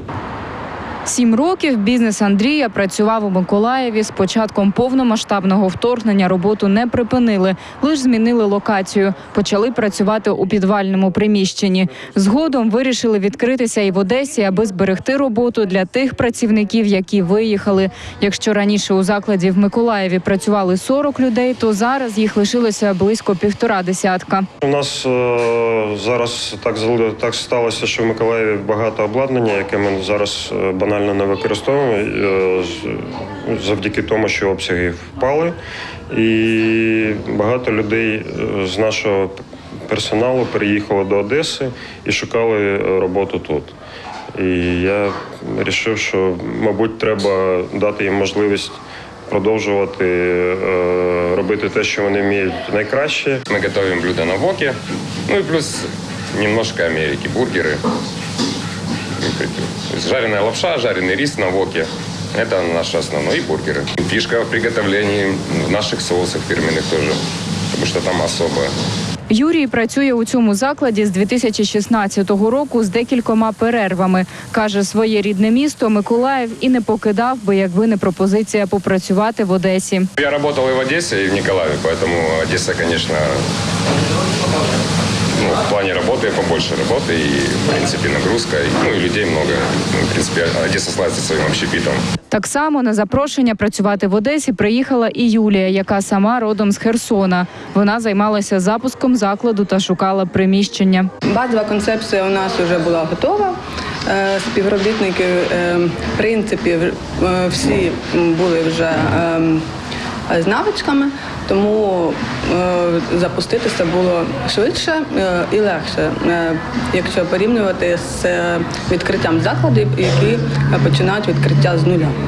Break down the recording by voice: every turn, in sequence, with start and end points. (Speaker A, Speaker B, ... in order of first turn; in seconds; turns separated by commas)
Speaker A: 1.1-24.5, Speaker B: 24.6-35.5, Speaker B: 36.1-43.8, Speaker B: 44.3-53.4, Speaker C: 53.5-54.8, Speaker C: 55.3-57.8, Speaker C: 59.2-67.2, Speaker C: 67.7-68.7, Speaker A: 69.3-80.1, Speaker C: 80.2-83.4, Speaker C: 85.4-92.0, Speaker A: 92.3-101.1, Speaker D: 101.3-109.6, Speaker D: 110.3-122.2